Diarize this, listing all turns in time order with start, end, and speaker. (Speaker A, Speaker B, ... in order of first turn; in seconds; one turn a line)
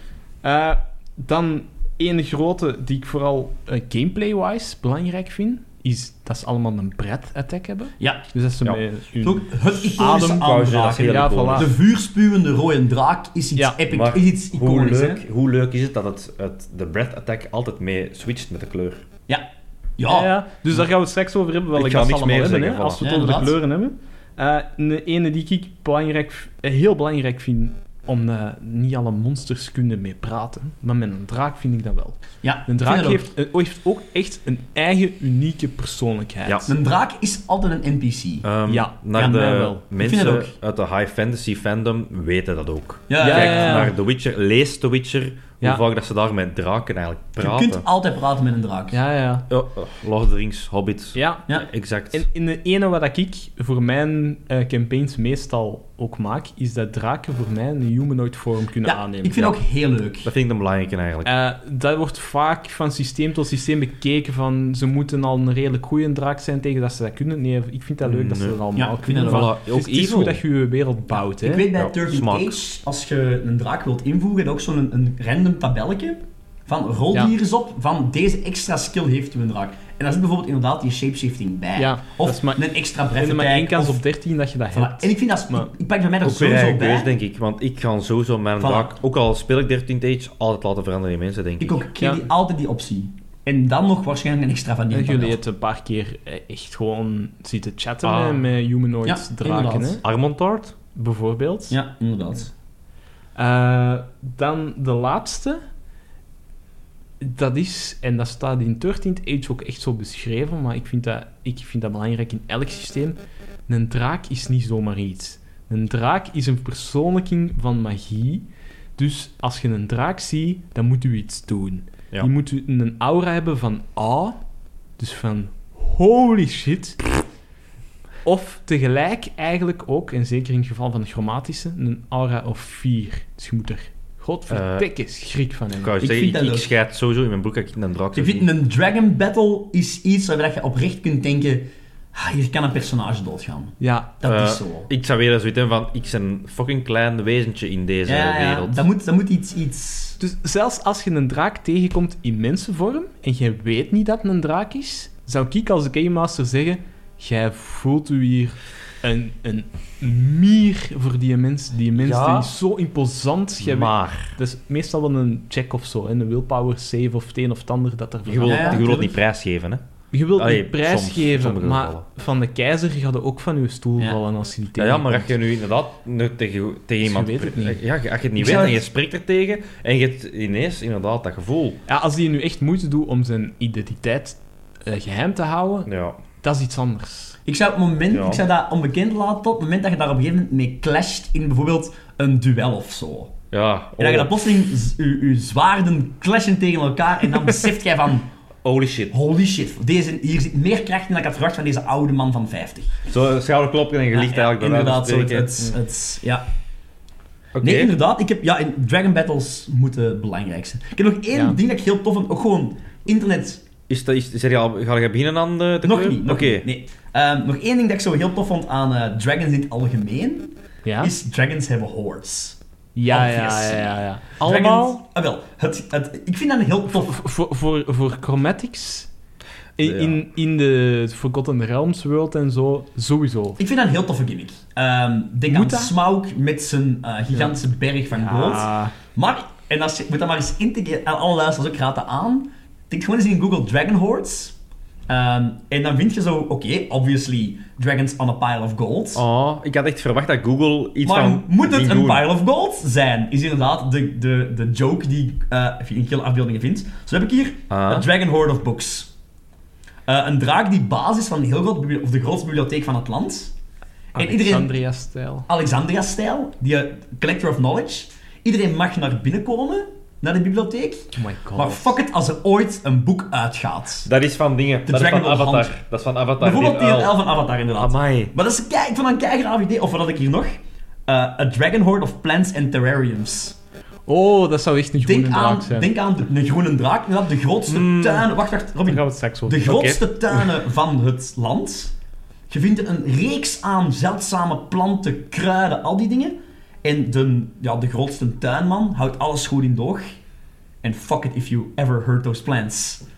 Speaker A: 0.4-11.7
Speaker B: 9.2-15.2
Speaker C: 10.2-11.7
Speaker C: 13.9-19.0
Speaker B: 20.0-20.3
Speaker A: 20.1-36.7
Speaker C: 21.7-23.0
Speaker B: 23.0-23.6
Speaker B: 32.4-33.3
Speaker B: 36.7-38.5
Speaker C: 38.4-47.8
Speaker A: 38.7-39.8
Speaker B: 39.2-40.5
Speaker B: 43.1-43.9
Speaker A: 43.2-43.9
Speaker B: 47.4-49.0
Speaker A: 48.9-49.5
Speaker C: 49.5-52.2
Speaker A: 51.2-51.5
Speaker A: 52.1-59.5
Speaker B: 58.8-60.3
Speaker C: 60.2-61.3
Speaker A: 61.2-71.7
Speaker C: 68.0-68.6
Speaker B: 68.8-69.5
Speaker C: 69.2-70.4
Speaker B: 71.3-84.0
Speaker C: 71.7-72.6
Speaker A: 81.8-85.7
Speaker B: 84.7-87.1
Speaker C: 86.2-91.8
Speaker B: 88.6-88.9
Speaker B: 91.6-95.4
Speaker A: 94.9-100.0
Speaker C: 98.0-98.4
Speaker B: 99.1-100.0
Speaker C: 100.0-100.8
Speaker A: 101.0-101.8
Speaker B: 101.7-102.5
Speaker A: 103.3-105.6
Speaker A: 107.2-113.2
Speaker A: 113.7-118.5
Speaker A: 119.0-124.4
Speaker A: 125.0-127.0
Speaker A: 128.2-136.0
Speaker C: 134.5-134.9
Speaker C: 135.8-138.5
Speaker B: 136.0-136.7
Speaker B: 138.2-144.9
Speaker A: 143.8-144.1
Speaker C: 144.2-148.8
Speaker B: 148.1-150.2
Speaker A: 150.2-168.9
Speaker C: 161.9-162.5
Speaker C: 163.6-164.4
Speaker C: 168.3-169.8
Speaker B: 168.4-169.1
Speaker A: 170.1-175.3
Speaker C: 170.3-172.0
Speaker C: 174.8-181.8
Speaker A: 177.0-177.8
Speaker B: 178.4-178.8
Speaker A: 181.9-185.9
Speaker C: 185.9-186.2
Speaker A: 186.4-187.4
Speaker B: 187.5-193.3
Speaker C: 188.1-188.4
Speaker C: 193.5-194.5
Speaker B: 194.0-198.3
Speaker C: 198.6-199.1
Speaker B: 199.1-203.0
Speaker C: 203.1-205.5
Speaker B: 204.1-206.4
Speaker C: 207.6-207.9
Speaker B: 207.6-213.6
Speaker C: 213.9-216.7
Speaker B: 215.8-227.2
Speaker A: 220.8-221.1
Speaker A: 223.0-224.3
Speaker C: 224.4-225.0
Speaker A: 226.9-229.1
Speaker A: 229.8-233.6
Speaker C: 229.8-230.2
Speaker B: 233.6-244.6
Speaker A: 235.5-235.9
Speaker A: 238.1-238.9
Speaker B: 245.1-249.2
Speaker C: 249.2-252.3
Speaker B: 251.0-259.1
Speaker C: 257.7-258.1
Speaker B: 260.1-263.5
Speaker B: 264.2-264.7
Speaker A: 264.2-265.5
Speaker B: 265.5-274.1
Speaker A: 271.2-272.0
Speaker C: 274.1-277.2
Speaker B: 274.9-275.7
Speaker B: 276.4-280.6
Speaker C: 277.8-278.3
Speaker B: 281.1-283.6
Speaker A: 284.1-285.9
Speaker B: 285.0-291.9
Speaker C: 287.7-288.3
Speaker A: 288.9-289.8
Speaker C: 289.6-290.4
Speaker B: 292.5-300.1
Speaker B: 300.8-303.0